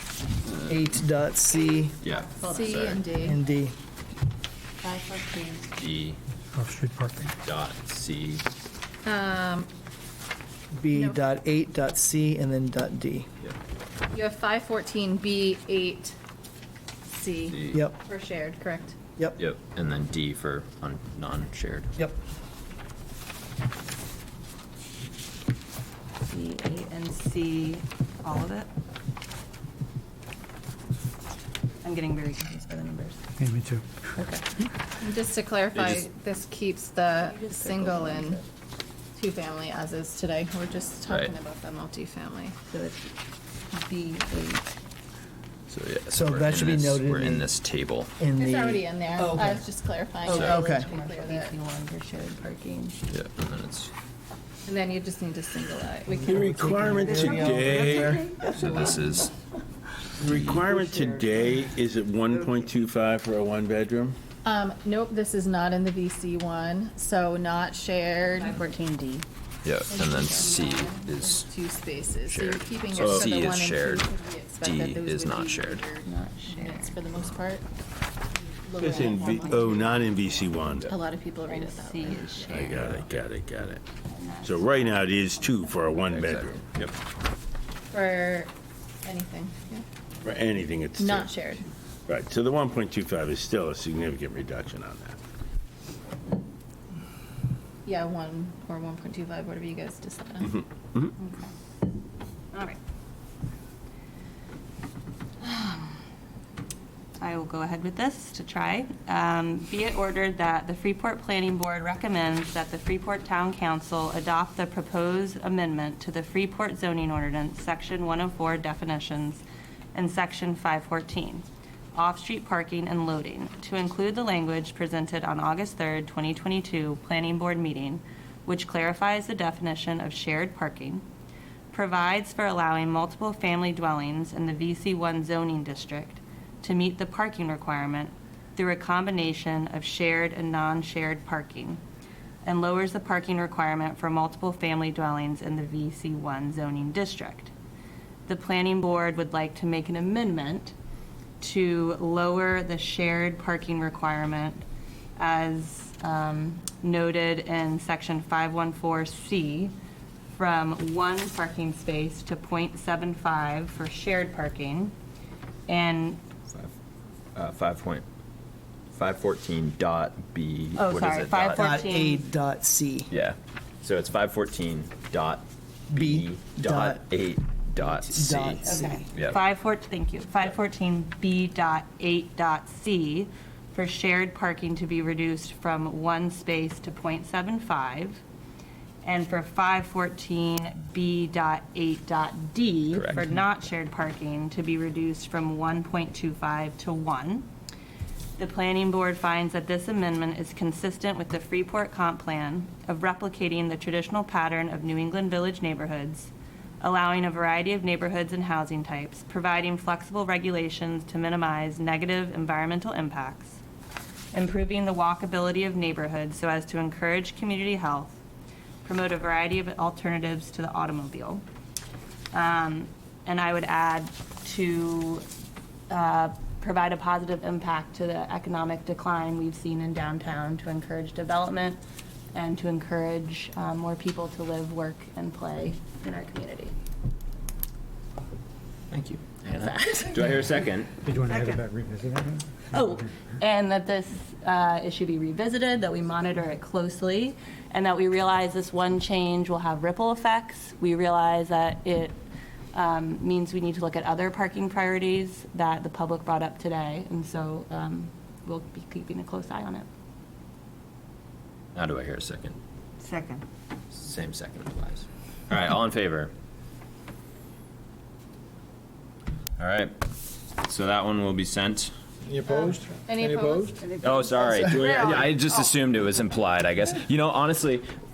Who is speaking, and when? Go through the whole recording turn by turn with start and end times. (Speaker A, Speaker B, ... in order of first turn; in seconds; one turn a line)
Speaker A: 0.5-0.8
Speaker B: 0.6-2.0
Speaker A: 2.0-3.0
Speaker C: 2.1-3.4
Speaker B: 3.1-3.7
Speaker D: 4.8-5.7
Speaker A: 5.8-6.2
Speaker E: 6.5-7.3
Speaker A: 7.4-8.4
Speaker C: 9.0-9.7
Speaker B: 10.8-13.2
Speaker C: 10.9-11.2
Speaker C: 14.1-16.1
Speaker C: 17.1-19.0
Speaker A: 17.5-17.8
Speaker B: 17.7-18.0
Speaker A: 19.4-21.9
Speaker D: 26.2-28.7
Speaker D: 31.8-33.2
Speaker E: 33.4-33.8
Speaker D: 34.2-34.4
Speaker C: 35.0-38.4
Speaker A: 35.7-36.1
Speaker D: 37.2-38.4
Speaker C: 39.1-42.5
Speaker A: 41.1-41.3
Speaker D: 42.7-43.1
Speaker D: 43.7-44.7
Speaker A: 45.7-48.1
Speaker B: 46.1-47.5
Speaker B: 48.2-49.6
Speaker C: 48.4-51.5
Speaker D: 50.2-53.0
Speaker B: 50.3-50.9
Speaker A: 53.1-53.9
Speaker C: 54.6-57.4
Speaker F: 56.2-58.2
Speaker B: 56.2-58.3
Speaker D: 57.1-58.8
Speaker A: 58.4-59.3
Speaker F: 60.2-64.2
Speaker A: 60.2-60.7
Speaker C: 64.4-68.6
Speaker D: 68.3-69.2
Speaker A: 69.6-71.5
Speaker C: 69.9-77.6
Speaker A: 72.2-75.8
Speaker F: 72.9-73.3
Speaker D: 76.0-77.0
Speaker C: 78.6-80.1
Speaker F: 78.8-80.9
Speaker D: 79.0-80.6
Speaker C: 80.8-82.8
Speaker D: 81.5-83.0
Speaker F: 82.5-83.8
Speaker D: 84.0-86.0
Speaker F: 84.4-86.6
Speaker A: 86.1-86.9
Speaker C: 87.9-88.5
Speaker C: 89.0-89.8
Speaker F: 90.2-91.3
Speaker C: 91.0-91.6
Speaker F: 92.1-95.2
Speaker C: 97.8-100.6
Speaker F: 100.5-101.1
Speaker D: 101.2-101.5
Speaker D: 102.5-102.8
Speaker D: 105.4-105.9
Speaker D: 107.2-119.4
Speaker D: 119.9-131.0
Speaker D: 131.7-141.8
Speaker D: 142.4-147.5
Speaker D: 148.3-150.7
Speaker D: 151.4-154.7
Speaker D: 155.2-159.7
Speaker D: 160.3-164.9
Speaker D: 165.7-166.2
Speaker A: 167.3-168.0
Speaker A: 168.9-171.7
Speaker D: 170.8-172.2
Speaker B: 171.6-173.1
Speaker A: 173.1-179.4
Speaker B: 175.9-177.1
Speaker B: 177.8-179.1
Speaker D: 178.6-188.2
Speaker D: 189.0-197.5
Speaker A: 192.9-193.3
Speaker D: 198.4-213.6
Speaker D: 214.3-218.2
Speaker D: 218.8-221.4
Speaker D: 222.3-225.2
Speaker D: 225.9-231.8
Speaker D: 232.3-236.7
Speaker A: 238.9-240.9
Speaker E: 241.0-242.4
Speaker D: 241.3-241.6
Speaker D: 242.7-252.2
Speaker D: 252.7-259.9
Speaker A: 261.7-262.6
Speaker D: 263.0-263.4
Speaker A: 263.9-266.3
Speaker A: 269.6-269.9
Speaker A: 270.6-271.9
Speaker E: 272.3-273.8
Speaker C: 272.4-275.3
Speaker A: 273.9-277.9